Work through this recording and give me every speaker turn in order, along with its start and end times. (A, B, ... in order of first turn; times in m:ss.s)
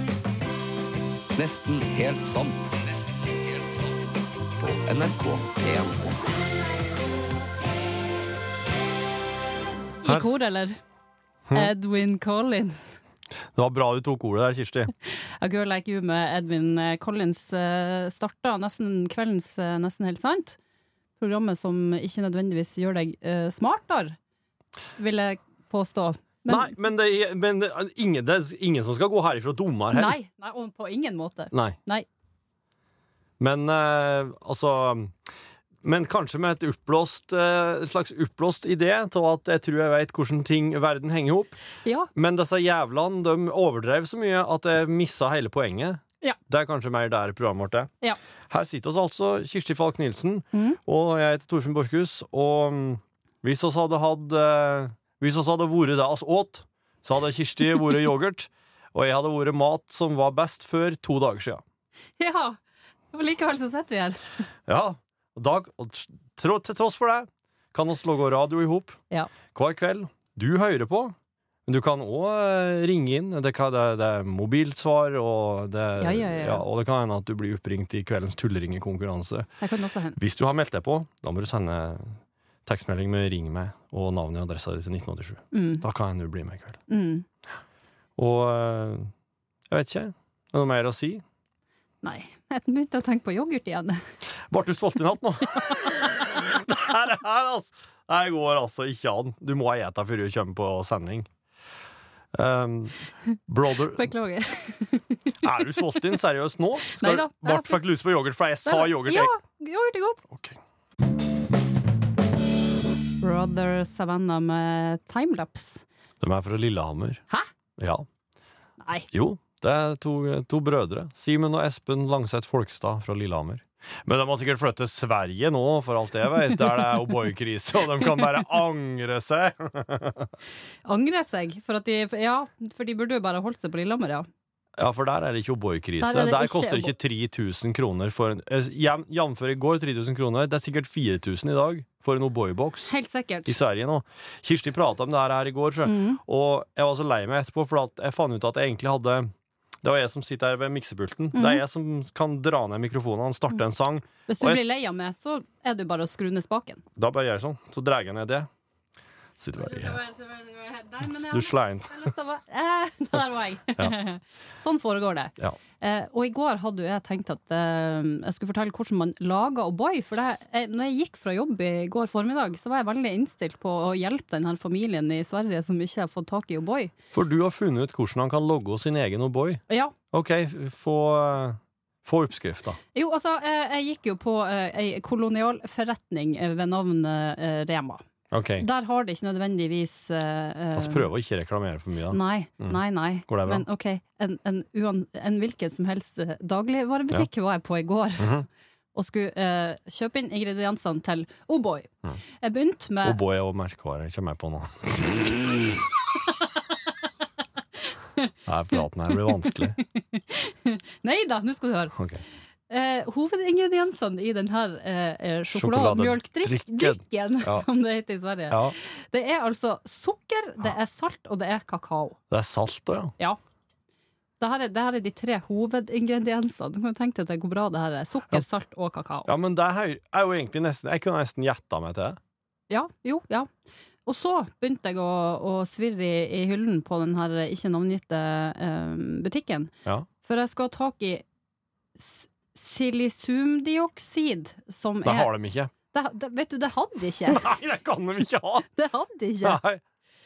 0:01.4-0:06.3 A
0:10.0-0:10.8 B
0:10.0-0:10.4 C
0:11.5-0:11.7 C
0:11.6-0:13.0 B
0:13.6-0:14.9 C
0:15.4-0:20.6 B
0:21.2-0:24.2 B
0:25.0-0:26.7 B
0:26.5-0:30.2 C
0:29.9-0:32.1 B
0:31.5-0:31.8 C
0:33.4-0:35.2 C
0:35.8-0:41.6 C
0:42.2-0:47.9 C
0:48.5-1:01.6 C
1:02.2-1:02.6 B
1:03.1-1:04.2 B
1:04.7-1:11.2 C
1:11.7-1:19.5 C
1:16.0-1:16.6 B
1:19.6-1:20.2 B
1:20.2-1:26.8 C
1:25.5-1:25.8 B
1:26.9-1:27.2 B
1:28.2-1:29.1 C
1:29.7-1:31.2 C
1:32.0-1:34.0 B
1:34.5-1:41.3 C
1:42.3-1:44.1 C
1:44.0-1:45.0 B
1:45.4-1:49.3 C
1:47.0-1:47.8 B
1:48.7-1:50.2 B
1:50.3-1:50.6 C
1:53.2-1:55.8 B
1:56.2-1:57.2 C
1:57.8-1:58.1 C
1:59.1-2:10.3 C
2:10.9-2:14.3 B
2:14.8-2:22.9 C
2:16.0-2:16.9 B
2:22.9-2:23.6 B
2:23.5-2:29.3 C
2:25.8-2:26.2 B
2:29.8-2:34.7 C
2:31.3-2:31.6 B
2:34.3-2:36.8 B
2:37.0-2:38.5 C
2:39.4-2:40.0 C
2:39.6-2:56.9 B
2:41.2-2:42.1 C
2:57.1-3:02.8 C
3:03.0-3:08.0 B
3:08.3-3:08.7 C
3:08.6-3:11.1 B
3:10.7-3:13.7 C
3:12.1-3:18.3 B
3:18.2-3:18.5 C
3:19.0-3:21.9 B
3:22.4-3:23.2 B
3:23.0-3:25.8 C
3:28.5-3:29.8 C
3:30.2-3:31.9 B
3:32.0-3:32.2 C
3:32.7-3:42.2 B
3:35.5-3:37.7 C
3:38.5-3:38.8 C
3:42.3-3:43.1 C
3:44.4-3:49.3 B
3:49.2-3:52.2 C
3:52.7-3:53.5 B
3:54.1-3:59.7 B
4:00.3-4:01.2 B
4:02.0-4:05.3 B
4:05.0-4:05.7 C
4:05.9-4:07.4 B
4:07.3-4:08.7 C
4:08.8-4:09.6 B
4:09.4-4:09.8 C